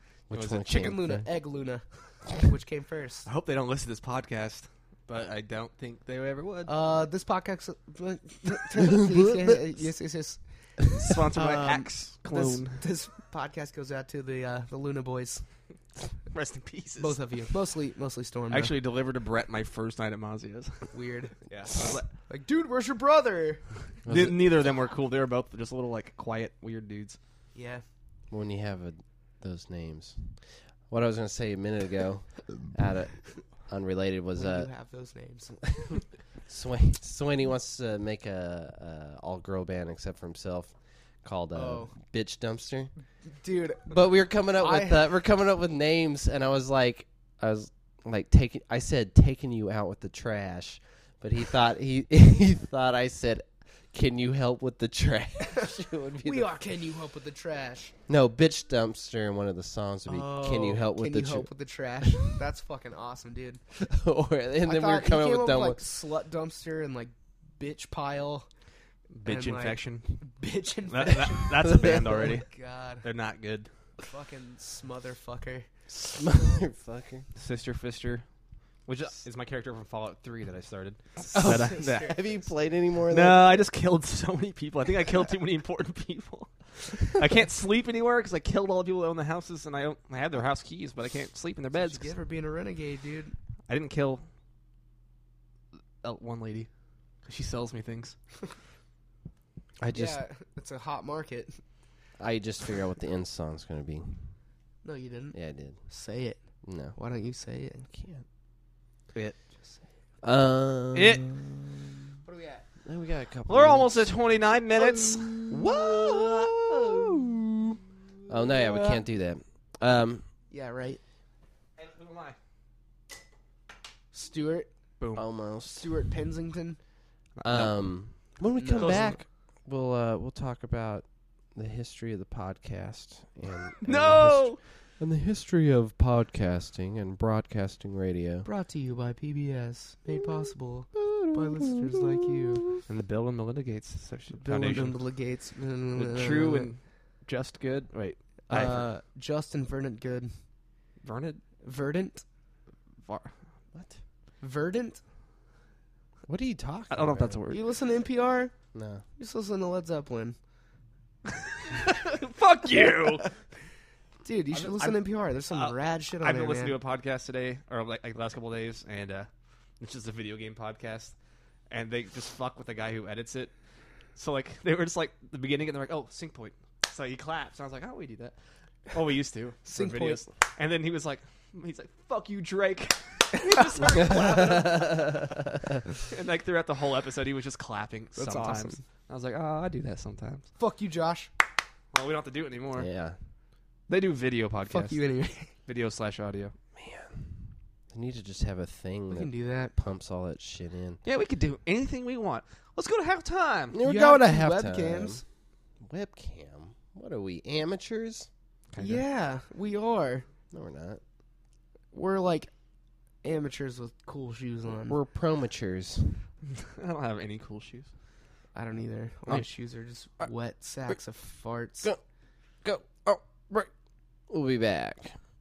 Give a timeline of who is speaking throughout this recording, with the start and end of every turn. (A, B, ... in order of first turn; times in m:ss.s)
0:00.3-0:01.2 A
0:00.3-0:01.0 B
0:00.6-0:03.3 C
0:03.2-0:06.7 B
0:06.6-0:10.4 C
0:08.9-0:09.2 A
0:11.0-0:12.8 B
0:11.3-0:15.4 C
0:16.3-0:17.2 B
0:17.0-0:18.7 C
0:18.5-0:22.1 B
0:20.9-0:21.4 C
0:22.3-0:23.7 C
0:24.0-0:24.4 A
0:24.0-0:27.2 B
0:27.5-0:27.8 C
0:28.3-0:34.7 A
0:34.3-0:35.6 C
0:36.4-0:42.9 A
0:41.5-0:41.9 C
0:43.4-0:45.1 C
0:43.9-0:56.5 A
0:56.2-0:57.9 C
0:58.1-1:01.5 A
1:00.1-1:03.6 C
1:03.7-1:05.8 A
1:04.6-1:08.5 C
1:09.1-1:10.2 B
1:09.2-1:13.0 C
1:10.9-1:13.7 B
1:11.7-1:12.0 A
1:14.0-1:15.7 C
1:15.9-1:17.3 A
1:17.4-1:18.2 B
1:18.8-1:22.2 B
1:21.3-1:23.5 A
1:21.4-1:22.3 C
1:23.1-1:32.1 B
1:31.7-1:33.3 C
1:33.7-1:34.2 B
1:36.0-1:36.7 B
1:37.2-1:38.2 B
1:39.8-1:40.2 A
1:39.9-1:41.6 C
1:42.2-1:44.3 A
1:44.8-1:46.4 C
1:45.3-1:45.8 A
1:46.6-1:46.9 A
1:46.9-1:47.9 C
1:47.9-1:48.2 A
1:50.2-1:51.4 A
1:50.9-1:51.7 B
1:52.2-1:52.6 C
1:52.8-1:54.1 A
1:53.5-1:57.2 B
1:54.8-1:57.5 A
1:58.3-2:00.2 A
2:00.5-2:01.0 C
2:01.8-2:02.4 B
2:04.1-2:04.7 C
2:05.0-2:05.2 B
2:05.1-2:05.9 A
2:05.7-2:06.8 C
2:07.4-2:07.8 B
2:07.4-2:18.5 A
2:08.5-2:09.2 C
2:08.8-2:09.1 B
2:13.8-2:14.6 B
2:18.4-2:22.6 C
2:20.9-2:22.8 A
2:22.8-2:25.0 B
2:24.3-2:26.7 C
2:25.9-2:28.9 B
2:28.5-2:30.3 C
2:31.0-2:31.4 B
2:31.6-2:32.2 C
2:33.0-2:33.3 B
2:34.4-2:35.0 C
2:36.3-2:37.4 A
2:36.9-2:37.6 B
2:37.5-2:38.5 C
2:38.7-2:39.0 A
2:39.2-2:40.4 C
2:41.8-2:43.3 B
2:44.2-2:46.8 C
2:44.5-2:49.3 B
2:49.8-2:51.1 B
2:51.7-2:53.5 B
2:54.1-2:58.4 B
2:58.9-3:05.0 B
2:59.6-3:00.2 C
3:03.3-3:04.6 C
3:04.0-3:05.8 A
3:06.0-3:10.5 B
3:08.1-3:08.8 C
3:10.6-3:11.3 C
3:11.9-3:12.9 B
3:12.8-3:13.2 A
3:13.9-3:15.0 B
3:14.7-3:15.5 C
3:15.6-3:16.5 B
3:16.8-3:21.0 A
3:19.1-3:19.7 C
3:21.0-3:23.8 B
3:23.7-3:25.2 A
3:23.8-3:25.2 C
3:25.8-3:28.3 A
3:28.7-3:29.0 B
3:28.8-3:30.3 C
3:30.5-3:31.0 A
3:31.9-3:32.5 C
3:33.2-3:35.0 C
3:34.9-3:36.2 A
3:36.5-3:37.9 B
3:38.5-3:41.9 C
3:42.6-3:43.7 A
3:44.3-3:45.2 A